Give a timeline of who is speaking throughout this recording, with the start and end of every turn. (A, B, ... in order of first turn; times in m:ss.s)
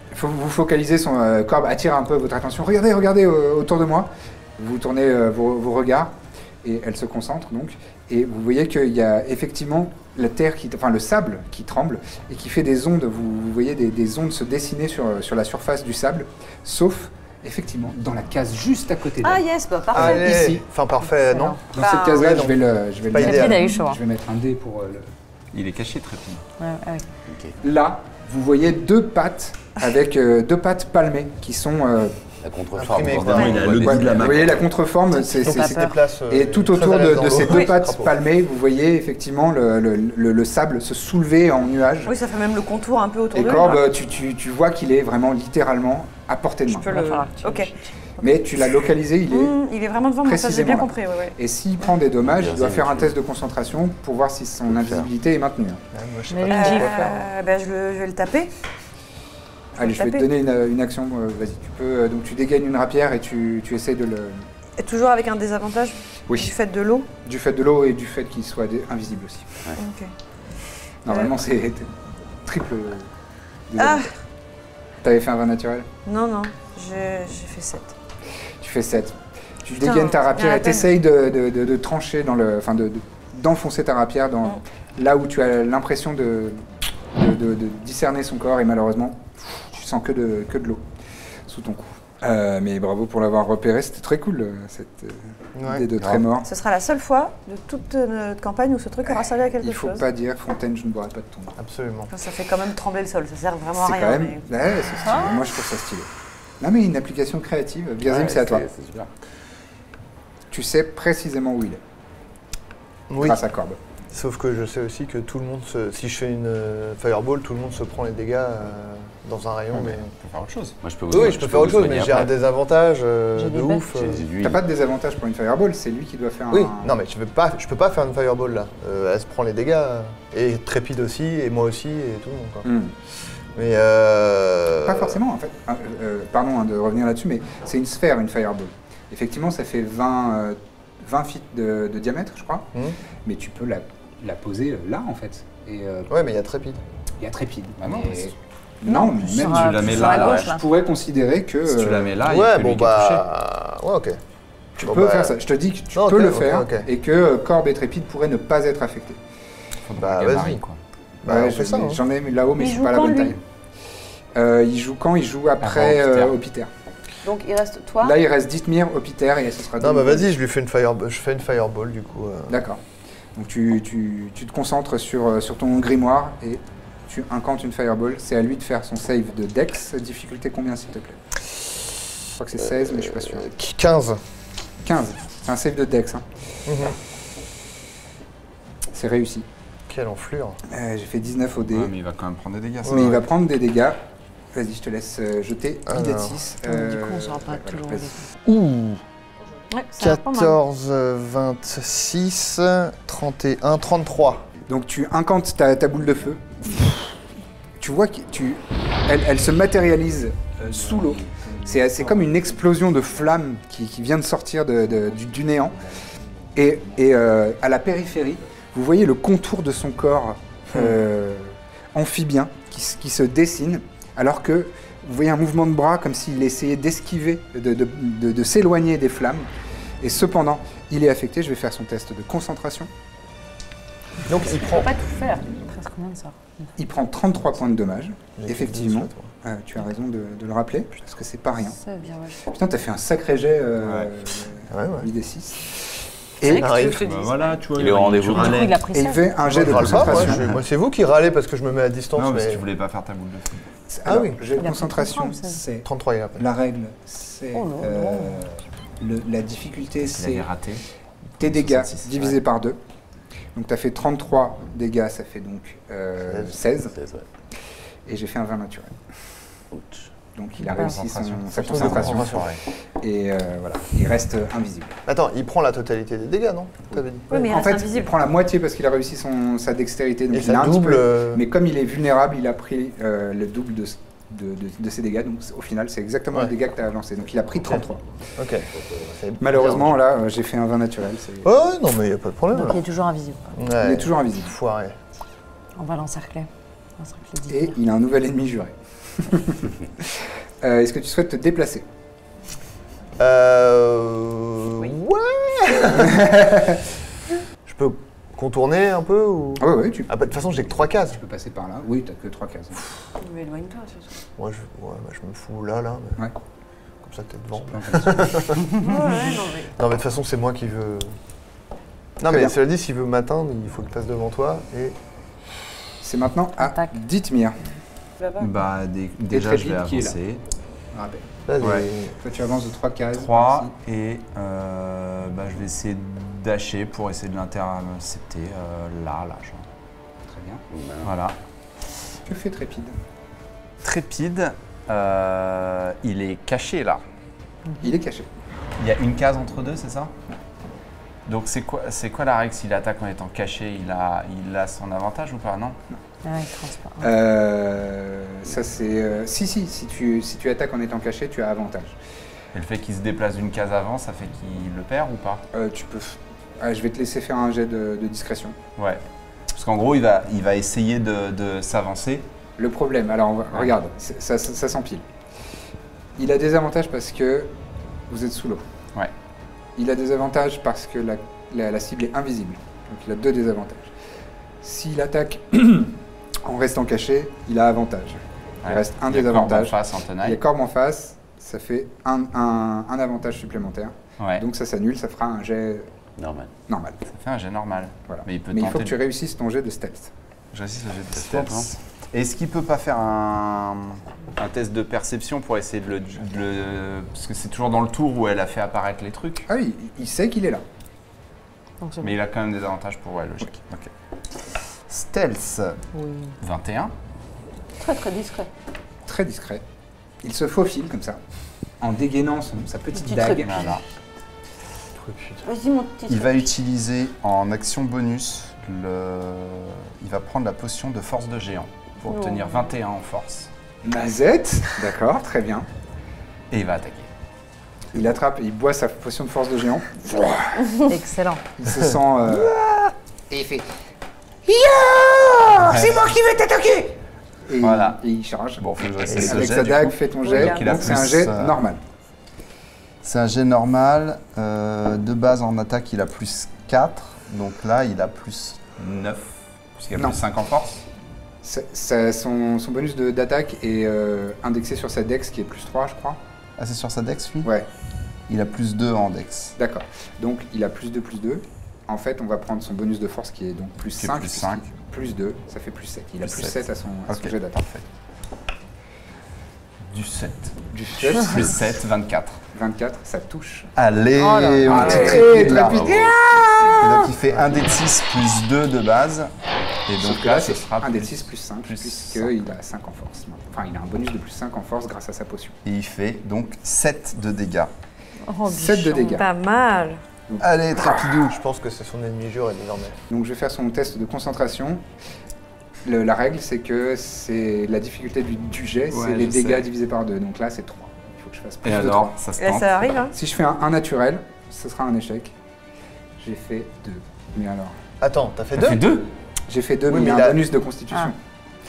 0:00.1-0:20.6 A
0:19.2-0:20.3 B
0:19.9-0:23.7 C
0:21.2-0:21.6 D
0:21.7-0:25.1 A
0:21.7-0:22.4 B
0:23.2-0:24.0 D
0:25.5-0:26.4 E
0:26.6-0:27.0 D
0:27.3-0:27.6 F
0:27.6-0:32.2 A
0:32.4-0:34.6 F
0:32.7-0:33.8 C
0:33.3-0:34.6 E
0:33.3-0:33.7 B
0:33.8-0:42.2 A
0:35.1-0:36.0 D
0:35.4-0:38.1 C
0:37.4-0:37.7 B
0:42.0-0:43.9 B
0:43.3-0:47.2 A
0:46.8-0:48.4 B
0:46.8-0:47.9 D
0:48.2-0:49.5 A
0:49.3-0:51.4 B
0:50.2-0:55.8 A
0:52.2-0:53.2 F
0:54.7-0:55.1 F
0:55.9-0:57.1 C
0:56.3-0:57.1 D
0:56.5-0:58.5 B
0:56.7-0:57.2 A
0:59.8-1:04.5 A
0:59.8-1:00.3 B
1:04.8-1:07.1 B
1:07.2-1:09.6 A
1:09.8-1:10.1 B
1:11.0-1:11.9 A
1:11.1-1:11.3 B
1:12.4-1:13.1 A
1:13.7-1:14.1 A
1:13.8-1:14.1 B
1:15.0-1:15.9 A
1:16.0-1:17.9 B
1:18.6-1:30.8 A
1:19.8-1:20.9 B
1:31.5-1:36.5 A
1:35.5-1:35.9 C
1:36.4-1:40.0 B
1:39.0-1:41.6 A
1:41.6-1:42.1 C
1:42.1-1:44.5 B
1:43.8-1:46.1 A
1:46.6-1:48.7 A
1:48.0-1:49.1 F
1:50.5-1:51.8 A
1:53.1-1:53.4 C
1:53.2-1:53.8 A
1:54.1-2:00.1 C
1:59.7-2:00.8 E
2:00.8-2:02.3 F
2:01.1-2:04.3 C
2:03.4-2:03.9 D
2:03.9-2:04.6 F
2:04.4-2:07.0 A
2:06.5-2:12.7 C
2:12.6-2:12.9 A
2:13.5-2:15.2 C
2:14.8-2:22.7 A
2:23.2-2:26.1 A
2:26.1-2:26.8 C
2:27.2-2:32.2 A
2:27.8-2:28.3 E
2:28.8-2:30.6 D
2:29.5-2:30.5 E
2:31.6-2:33.2 E
2:32.2-2:34.2 C
2:34.8-2:39.2 A
2:34.8-2:35.4 C
2:35.9-2:36.9 C
2:39.8-2:40.8 E
2:40.0-2:40.6 C
2:41.2-2:42.0 C
2:41.3-2:43.4 A
2:42.6-2:43.4 B
2:44.3-2:46.7 A
2:45.6-2:46.3 E
2:47.2-2:48.2 B
2:48.0-2:50.3 A
2:49.8-2:52.6 C
2:52.5-2:52.8 A
2:53.3-3:01.2 A
3:02.4-3:03.5 A
3:03.4-3:04.2 C
3:04.8-3:06.3 A
3:06.6-3:07.0 C
3:08.9-3:09.4 A
3:09.9-3:10.6 C
3:10.7-3:11.9 A
3:11.6-3:13.3 E
3:12.9-3:13.1 C
3:12.9-3:14.0 A
3:14.5-3:18.2 A
3:15.8-3:16.4 C
3:16.6-3:18.3 D
3:18.4-3:19.0 C
3:19.7-3:20.5 B
3:20.0-3:24.4 C
3:24.7-3:27.1 A
3:27.8-3:35.8 A
3:36.5-3:49.5 A
3:50.0-3:52.9 A
3:54.2-3:55.0 C
3:54.3-3:55.5 B
3:55.5-3:56.7 D
3:56.8-4:01.8 A
3:58.4-3:59.3 C
4:01.6-4:02.4 D
4:02.4-4:05.8 A
4:03.8-4:04.1 E
4:04.7-4:05.1 C
4:06.4-4:06.9 A
4:06.4-4:07.6 B
4:06.4-4:07.0 C
4:06.9-4:08.9 E
4:07.8-4:08.6 F
4:08.3-4:09.7 D
4:08.9-4:10.5 A
4:09.4-4:12.6 C
4:12.2-4:13.6 E
4:13.9-4:20.5 A
4:14.0-4:14.4 C
4:14.6-4:15.6 D
4:15.8-4:16.4 C
4:17.5-4:18.5 D
4:20.0-4:20.8 E
4:21.4-4:22.8 A
4:21.4-4:22.4 E
4:23.5-4:26.9 A
4:26.3-4:26.5 C
4:26.9-4:27.2 F
4:28.1-4:29.0 A
4:29.7-4:30.1 F
4:30.3-4:32.4 A
4:30.6-4:31.0 D
4:30.6-4:32.6 E
4:31.6-4:32.5 C
4:33.0-4:35.0 A
4:35.0-4:37.5 C
4:36.9-4:48.0 A
4:37.3-4:38.1 B
4:40.3-4:41.4 C
4:47.6-4:50.0 C
4:48.7-4:49.1 F
4:49.4-4:51.5 A
4:51.4-4:52.8 C
4:52.5-4:53.6 D
4:53.5-4:55.0 C
4:53.8-4:54.5 A
4:55.8-4:57.8 D
4:57.5-5:01.8 A
5:03.2-5:06.8 C
5:06.0-5:06.8 A
5:07.6-5:11.2 C
5:09.6-5:12.8 A
5:13.2-5:14.1 B
5:14.4-5:16.3 C
5:17.0-5:18.7 C
5:17.7-5:18.6 A
5:18.8-5:19.7 B
5:19.2-5:21.1 C
5:22.2-5:25.0 C
5:26.0-5:27.7 A
5:26.6-5:27.0 D
5:28.2-5:28.5 B
5:28.4-5:30.4 E
5:29.3-5:30.2 A
5:30.9-5:31.2 A
5:31.4-5:32.2 C
5:31.6-5:31.9 E
5:32.2-5:33.7 A
5:33.1-5:39.7 E
5:40.3-5:40.6 A
5:40.7-5:41.1 F
5:41.0-5:41.4 E
5:42.2-5:43.0 A
5:43.8-5:47.0 E
5:47.6-5:48.0 D
5:47.8-5:48.3 A
5:48.8-5:50.1 E
5:51.2-5:55.8 E
5:56.2-5:57.1 D
5:57.0-6:02.0 A
6:02.5-6:05.4 E
6:05.5-6:08.6 A
6:08.8-6:12.3 E
6:12.6-6:15.0 A
6:16.2-6:17.5 A
6:18.1-6:18.6 A
6:19.8-6:23.9 A
6:24.6-6:35.9 A
6:28.6-6:30.4 E
6:34.2-6:34.4 E
6:36.2-6:36.5 F
6:36.7-6:37.0 A
6:37.1-6:39.0 E
6:38.1-6:40.1 A
6:40.5-6:49.4 E
6:41.1-6:41.7 F
6:49.5-6:50.6 A
6:51.8-6:52.1 D
6:52.0-6:55.8 E
6:55.9-6:56.4 D
6:56.4-6:56.9 E
6:57.8-6:58.5 B
6:59.0-6:59.6 A
7:00.2-7:01.2 A
7:01.8-7:03.8 A
7:03.0-7:03.8 B
7:03.4-7:03.8 E
7:05.0-7:05.4 C
7:05.4-7:06.5 B
7:06.1-7:13.5 E
7:12.1-7:12.4 D
7:13.8-7:15.7 A
7:16.5-7:17.1 E
7:17.9-7:20.7 A
7:20.9-7:21.4 D
7:21.6-7:22.6 A
7:23.3-7:23.6 A
7:24.5-7:26.8 E
7:25.6-7:26.8 A
7:27.5-7:31.8 A
7:27.6-7:28.0 E
7:28.6-7:31.6 E
7:30.2-7:31.1 B
7:33.0-7:40.8 E
7:41.4-7:46.2 A
7:46.6-7:47.5 E
7:48.3-7:49.5 E
7:49.6-7:57.6 A
7:54.0-7:54.6 E
7:56.2-7:57.8 E
7:59.8-8:02.4 E
8:00.7-8:01.6 A
8:02.5-8:03.7 A
8:03.8-8:09.3 E
8:04.1-8:05.3 D
8:04.6-8:06.0 A
8:04.8-8:07.0 F
8:07.0-8:07.8 A
8:09.8-8:12.4 E
8:10.0-8:15.6 A
8:15.6-8:17.7 E
8:18.2-8:19.3 D
8:18.4-8:19.2 A
8:19.1-8:20.0 B
8:20.4-8:21.4 E
8:20.4-8:23.0 C
8:23.1-8:24.8 A
8:25.8-8:32.2 A
8:28.9-8:29.7 E
8:31.6-8:32.9 E
8:32.4-8:33.1 B
8:33.1-8:35.3 A
8:36.2-8:37.8 A
8:38.0-8:38.8 C
8:38.6-8:39.1 E
8:39.5-8:41.2 A
8:39.9-8:40.5 C